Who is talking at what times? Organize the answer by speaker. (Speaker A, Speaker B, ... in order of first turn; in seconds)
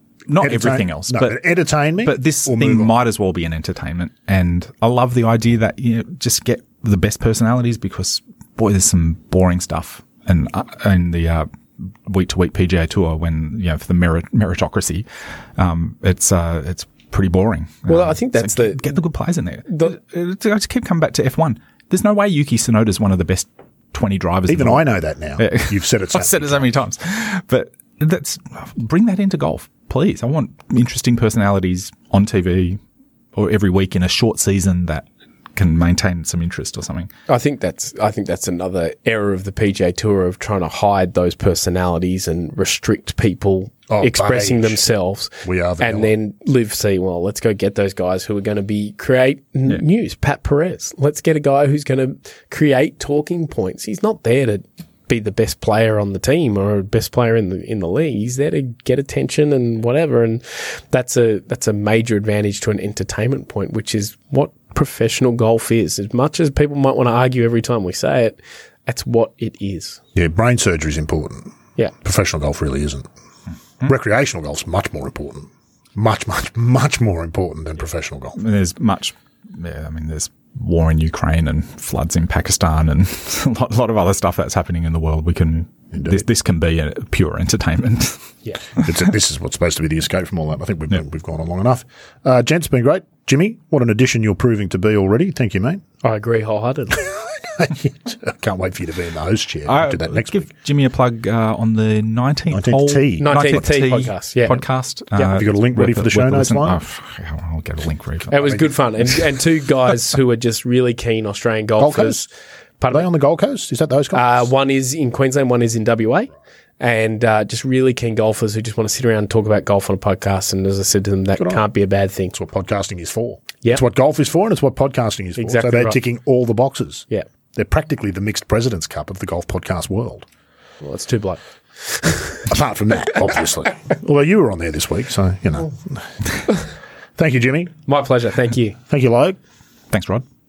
Speaker A: 0.3-1.4, 2.0-24.8, 25.4-32.8, 33.3-37.1, 78.4-88.9, 99.7-108.5, 139.9-140.2
Speaker B: 0.4-2.9, 24.5-26.6, 43.9-44.9, 45.4-46.1, 70.1-73.1, 73.8-78.4, 85.9-86.2, 88.8-95.8, 97.0-100.5, 102.5-103.3, 105.2-106.8, 111.8-112.3, 112.9-114.5, 121.4-121.6, 122.3-130.3, 132.4-136.2, 137.2-137.7, 138.9-139.4
Speaker C: 17.9-18.9, 19.7-19.9, 37.3-70.0, 96.0-97.1, 103.2-104.6, 108.3-112.2, 112.8-113.1, 114.1-122.3, 125.4-126.0, 130.8-132.5, 137.9-138.8